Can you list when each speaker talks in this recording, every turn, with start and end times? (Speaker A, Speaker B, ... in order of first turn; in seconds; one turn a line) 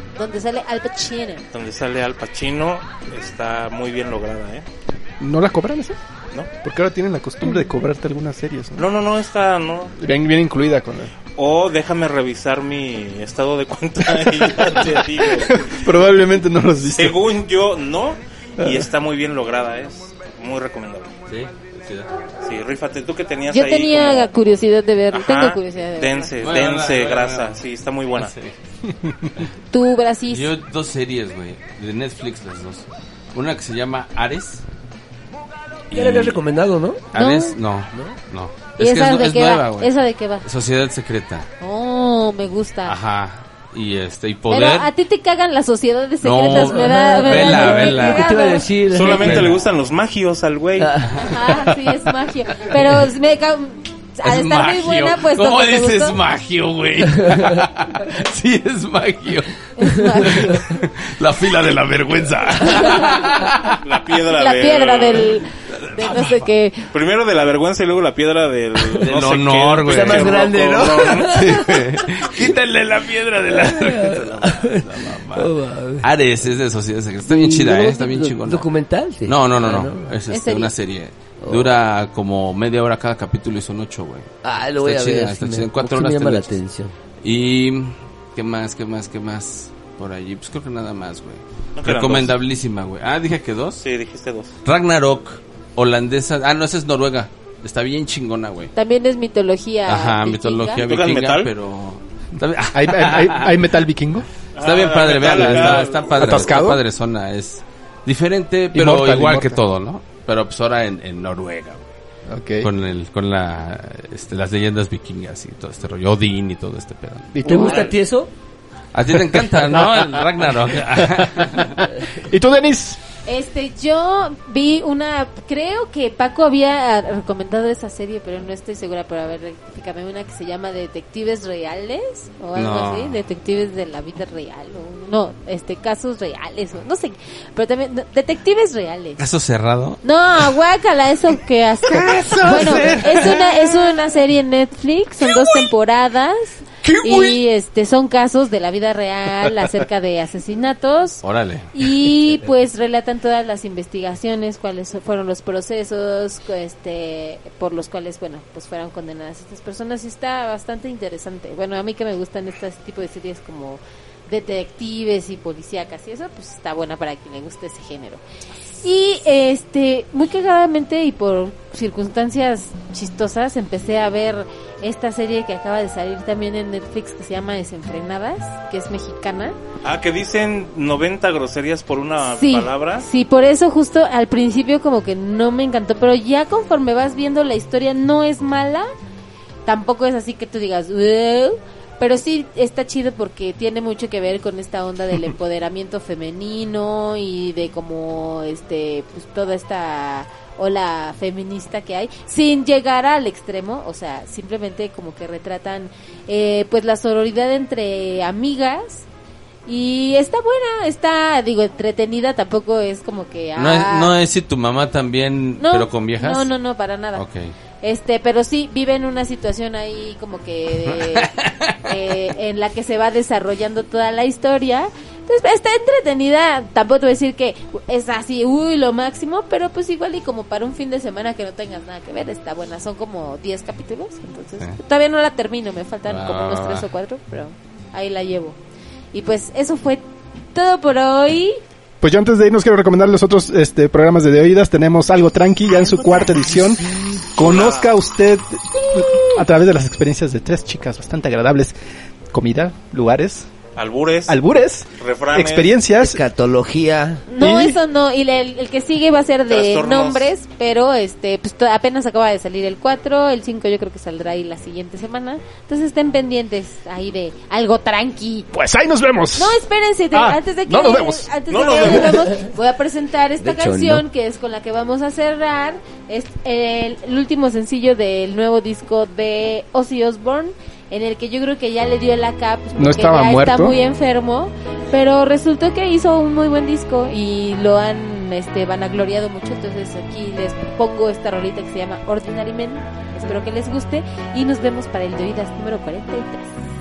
Speaker A: 0.2-1.5
Speaker B: 1.5-4.7
Speaker C: 5.2-6.0
Speaker C: 6.6-8.9
Speaker B: 8.8-10.0
Speaker C: 10.0-11.1
Speaker B: 11.3-15.8
Speaker C: 14.6-17.3
Speaker B: 17.0-21.1
Speaker C: 18.6-18.9
Speaker D: 21.3-22.1
Speaker B: 22.4-24.3
Speaker A: 23.5-26.3
Speaker B: 25.1-28.3
Speaker D: 26.4-27.6
Speaker D: 28.1-28.5
Speaker C: 28.9-29.3
Speaker A: 29.7-30.5
Speaker D: 30.3-34.6
Speaker D: 35.9-36.4
Speaker E: 35.9-37.1
Speaker D: 37.1-41.5
Speaker A: 37.1-37.5
Speaker E: 37.9-38.2
Speaker A: 38.8-40.5
Speaker A: 41.6-43.0
Speaker D: 42.9-44.9
Speaker A: 44.5-48.7
Speaker D: 46.2-48.4
Speaker E: 46.5-49.5
Speaker B: 48.9-50.9
Speaker D: 49.0-49.6
Speaker E: 50.8-51.3
Speaker A: 51.1-56.2
Speaker D: 54.2-59.5
Speaker A: 59.8-60.6
Speaker D: 60.2-63.8
Speaker A: 62.7-63.1
Speaker B: 63.8-65.4
Speaker A: 64.3-66.9
Speaker D: 65.8-66.4
Speaker B: 66.9-71.6
Speaker D: 68.8-78.7
Speaker E: 69.9-72.5
Speaker E: 73.4-76.1
Speaker E: 77.3-80.2
Speaker D: 79.3-86.6
Speaker A: 80.3-80.7
Speaker E: 81.4-81.7
Speaker E: 84.4-86.9
Speaker D: 87.2-93.8
Speaker B: 91.8-92.4
Speaker B: 93.8-94.5
Speaker D: 94.7-98.7
Speaker A: 98.8-100.9
Speaker D: 99.9-103.6
Speaker B: 100.8-101.5
Speaker C: 102.7-104.3
Speaker B: 104.6-106.5
Speaker D: 104.6-111.8
Speaker C: 105.3-106.8
Speaker C: 108.7-109.6
Speaker C: 112.3-112.7
Speaker D: 112.6-117.8
Speaker C: 117.3-117.9
Speaker E: 117.4-118.3
Speaker D: 118.9-121.8
Speaker C: 119.3-123.0
Speaker A: 123.3-139.2
Speaker D: 132.6-133.2
Speaker D: 139.2-140.0
Speaker A: 140.0-168.2
Speaker E: 142.1-143.1
Speaker D: 142.5-143.6
Speaker D: 151.2-151.7
Speaker A: 168.8-179.6
Speaker B: 179.8-183.1
Speaker A: 182.3-188.9
Speaker A: 189.7-209.1
Speaker A: 209.7-214.2
Speaker D: 213.6-216.5
Speaker A: 215.6-217.2
Speaker D: 217.1-217.5
Speaker A: 217.8-238.6
Speaker D: 220.9-221.8
Speaker D: 236.1-236.9
Speaker A: 239.1-240.0
Speaker A: 240.5-241.6
Speaker C: 242.0-251.7
Speaker E: 246.6-247.3
Speaker B: 247.4-247.9
Speaker A: 248.8-249.4
Speaker C: 252.3-253.5
Speaker B: 253.8-254.4
Speaker C: 254.3-256.2
Speaker B: 255.0-255.8
Speaker E: 256.0-257.2
Speaker A: 257.3-268.5
Speaker C: 257.4-257.8
Speaker B: 259.5-260.3
Speaker C: 268.5-269.6
Speaker A: 269.4-296.5
Speaker C: 270.1-271.3
Speaker B: 271.5-272.3
Speaker E: 273.4-274.1
Speaker C: 282.8-283.8